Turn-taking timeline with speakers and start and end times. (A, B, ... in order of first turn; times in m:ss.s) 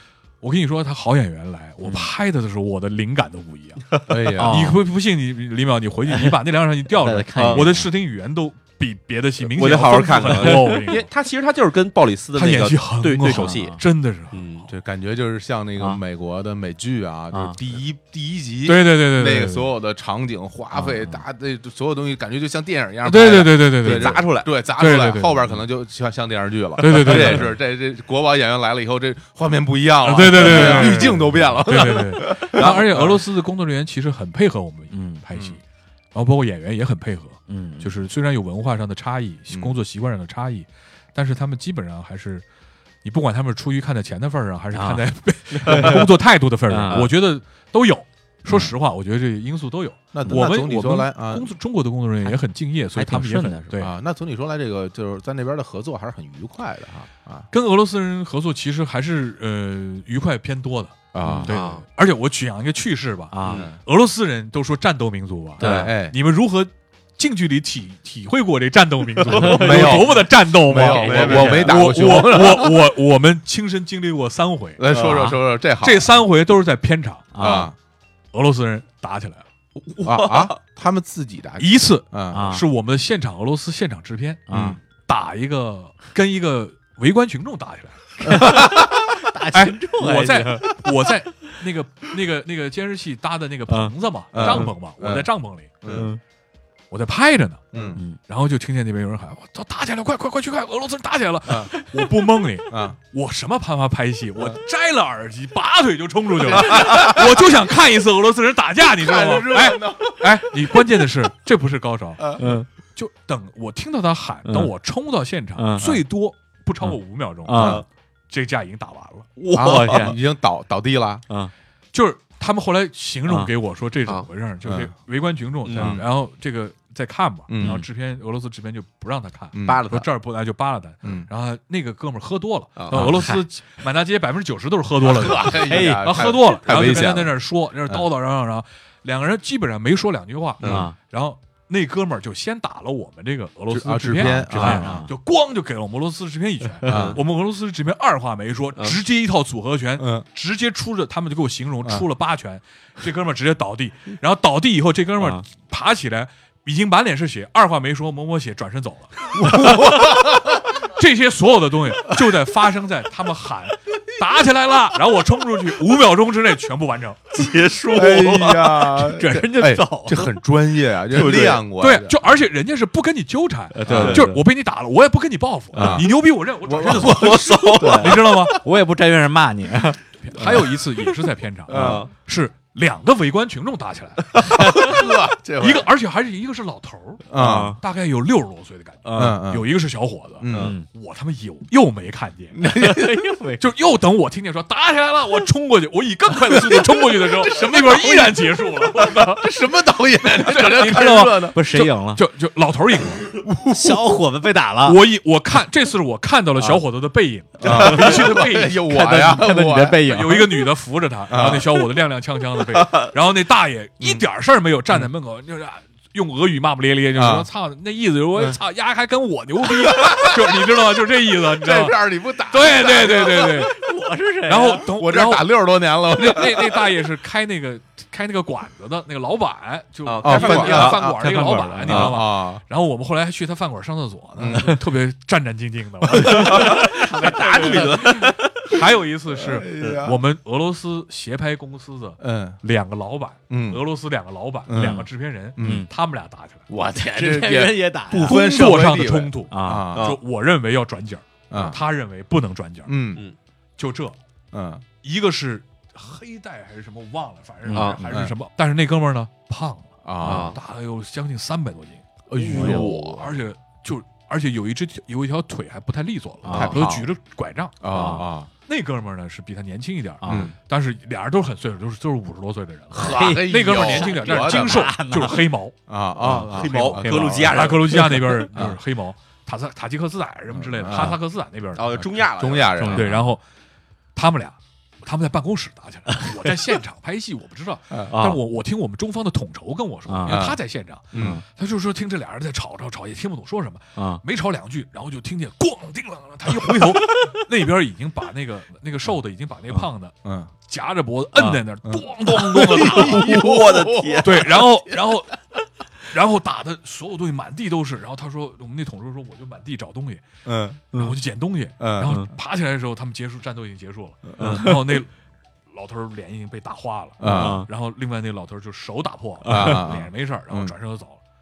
0:00.4-0:11.1 A
0:01.8-0:02.1 B
0:04.1-0:04.8 C
0:04.4-0:04.8 B
0:06.1-0:06.4 B
0:06.9-0:07.9 B
0:07.4-0:07.7 D
0:09.4-0:13.8 D
0:12.3-0:14.4 A
0:13.3-0:13.8 B
0:14.3-0:14.7 D
0:14.6-0:33.2 C
0:18.6-0:19.7 A
0:20.7-0:21.2 B
0:23.0-0:25.4 A
0:23.8-0:24.5 D
0:26.8-0:27.5 A
0:30.0-0:35.6 A
0:30.4-0:30.7 D
0:30.7-0:31.2 B
0:32.5-0:33.1 D
0:34.9-0:35.2 B
0:35.3-0:35.6 C
0:36.1-0:42.4 A
0:37.5-0:37.9 B
0:39.5-0:39.8 C
0:43.0-0:53.9 A
0:44.7-0:45.0 B
0:45.6-0:46.0 B
0:46.7-0:47.1 B
0:50.1-0:51.5 C
0:52.9-0:53.7 B
0:53.7-0:57.5 C
0:57.5-1:14.8 A
1:01.1-1:01.5 C
1:01.2-1:01.5 B
1:01.5-1:01.8 D
1:03.3-1:03.6 B
1:03.4-1:03.7 D
1:03.5-1:03.8 C
1:05.6-1:05.9 B
1:05.6-1:06.2 C
1:09.3-1:13.0 C
1:09.3-1:10.1 B
1:10.8-1:11.7 B
1:11.0-1:11.6 D
1:14.8-1:16.1 C
1:14.9-1:15.4 B
1:15.8-1:17.5 A
1:17.3-1:17.7 B
1:17.4-1:17.7 C
1:18.3-1:19.4 A
1:19.9-1:20.6 D
1:20.0-1:22.5 C
1:21.6-1:28.8 A
1:22.3-1:22.6 B
1:24.5-1:24.8 B
1:24.5-1:24.8 C
1:28.2-1:29.0 C
1:28.2-1:30.8 B
1:29.5-1:35.8 A
1:33.7-1:34.7 B
1:34.3-1:35.3 C
1:35.8-1:36.1 C
1:35.9-1:36.2 B
1:36.9-1:59.3 A
1:37.7-1:38.0 C
1:41.4-1:41.7 C
1:42.7-1:43.0 C
1:46.4-1:47.6 C
1:48.8-1:51.1 C
1:52.4-1:52.7 B
1:54.4-1:54.7 B
1:55.6-1:56.0 B
1:56.8-1:57.8 B
1:57.5-1:57.8 C
1:59.4-2:00.1 D
1:59.5-2:01.2 C
1:59.5-2:00.2 B
2:01.9-2:47.5 A
2:03.3-2:03.5 B
2:04.6-2:04.9 C
2:05.6-2:06.0 D
2:05.8-2:06.0 C
2:07.5-2:07.8 C
2:09.5-2:10.1 C
2:09.6-2:10.0 D
2:11.0-2:11.3 C
2:12.8-2:13.1 D
2:12.9-2:13.4 B
2:15.0-2:18.0 C
2:15.4-2:16.2 B
2:20.6-2:20.9 B
2:23.7-2:25.1 C
2:24.2-2:25.1 B
2:26.8-2:27.2 C
2:26.8-2:27.2 D
2:30.0-2:30.2 C
2:35.2-2:35.4 B
2:39.3-2:40.7 C
2:47.3-2:48.8 D
2:47.9-2:52.3 C
2:48.5-2:49.5 A
2:49.1-2:50.4 B
2:51.1-2:51.6 D
2:51.8-2:58.6 A
2:53.7-2:54.4 B
2:53.8-2:54.3 C
2:53.9-2:54.2 D
2:55.7-2:58.3 C
2:55.7-2:56.0 B
2:56.8-2:58.2 D
2:57.7-3:00.8 B
3:00.2-3:05.0 A
3:01.7-3:02.0 C
3:01.7-3:02.1 D
3:04.5-3:04.8 B
3:04.5-3:05.9 C
3:05.6-3:12.6 A
3:07.3-3:07.8 C
3:07.4-3:07.8 B
3:09.1-3:09.7 C
3:10.4-3:10.7 C
3:10.5-3:10.8 B
3:12.5-3:13.2 C
3:12.6-3:13.6 B
3:13.6-3:19.4 A
3:16.4-3:21.6 C
3:20.3-3:23.4 A
3:21.5-3:22.2 B
3:23.4-3:23.9 C
3:23.7-3:25.0 B
3:24.8-3:28.8 A
3:26.6-3:26.8 B
3:27.6-3:30.4 C
3:27.6-3:30.6 B
3:30.0-3:43.8 A
3:31.3-3:31.9 C
3:32.7-3:33.0 D
3:34.0-3:34.2 C
3:37.1-3:37.5 C
3:39.6-3:40.7 C
3:41.2-3:43.7 C
3:43.1-3:44.8 B
3:44.4-4:06.6 A
3:44.8-3:46.9 C
3:50.0-3:51.1 D
3:50.2-3:52.6 C
3:51.2-3:51.9 B
3:51.8-3:52.2 D
3:54.3-3:54.8 C
3:56.1-3:56.9 C
3:56.2-3:58.6 D
3:56.6-3:57.9 B
3:59.3-4:00.2 C
4:02.2-4:02.6 C
4:03.5-4:03.8 C
4:04.7-4:05.9 C
4:04.8-4:05.0 B
4:05.6-4:05.9 B
4:06.7-4:10.2 C
4:07.0-4:08.4 B
4:08.2-4:13.0 A
4:09.5-4:09.9 B
4:11.5-4:11.8 C
4:12.8-4:13.2 C
4:13.8-4:14.2 A
4:14.5-4:14.8 C
4:15.0-4:42.2 A
4:17.6-4:18.0 B
4:17.7-4:18.0 D
4:18.0-4:18.4 C
4:20.0-4:20.6 C
4:20.2-4:20.6 D
4:22.3-4:23.4 C
4:22.5-4:22.9 B
4:26.4-4:26.7 B
4:26.5-4:26.8 D
4:26.5-4:27.1 C
4:27.8-4:28.5 C
4:27.9-4:28.2 B
4:30.2-4:30.5 B
4:30.2-4:30.6 C
4:32.9-4:35.0 C
4:32.9-4:35.5 B
4:35.9-4:38.8 C
4:36.2-4:38.2 B
4:36.5-4:38.3 D
4:40.5-4:41.2 C
4:41.7-4:42.9 D
4:42.2-4:43.3 C
4:42.8-4:43.1 B
4:42.9-4:43.4 A
4:44.1-5:03.6 A
4:48.1-4:48.4 B
4:50.1-4:50.4 B
4:50.2-4:50.6 C
4:51.1-4:51.4 C
4:51.1-4:51.4 B
4:54.0-4:54.2 B
5:00.2-5:00.5 C
5:01.3-5:01.6 B
5:01.8-5:05.2 C
5:02.8-5:04.6 D
5:04.2-5:05.4 A
5:06.0-5:10.2 A
5:10.4-5:10.9 C
5:10.9-5:15.1 A
5:11.8-5:12.2 C
5:14.4-5:14.8 B
5:15.7-5:21.2 A
5:17.2-5:17.6 C
5:17.2-5:17.7 B
5:19.4-5:19.9 B
5:19.4-5:20.7 C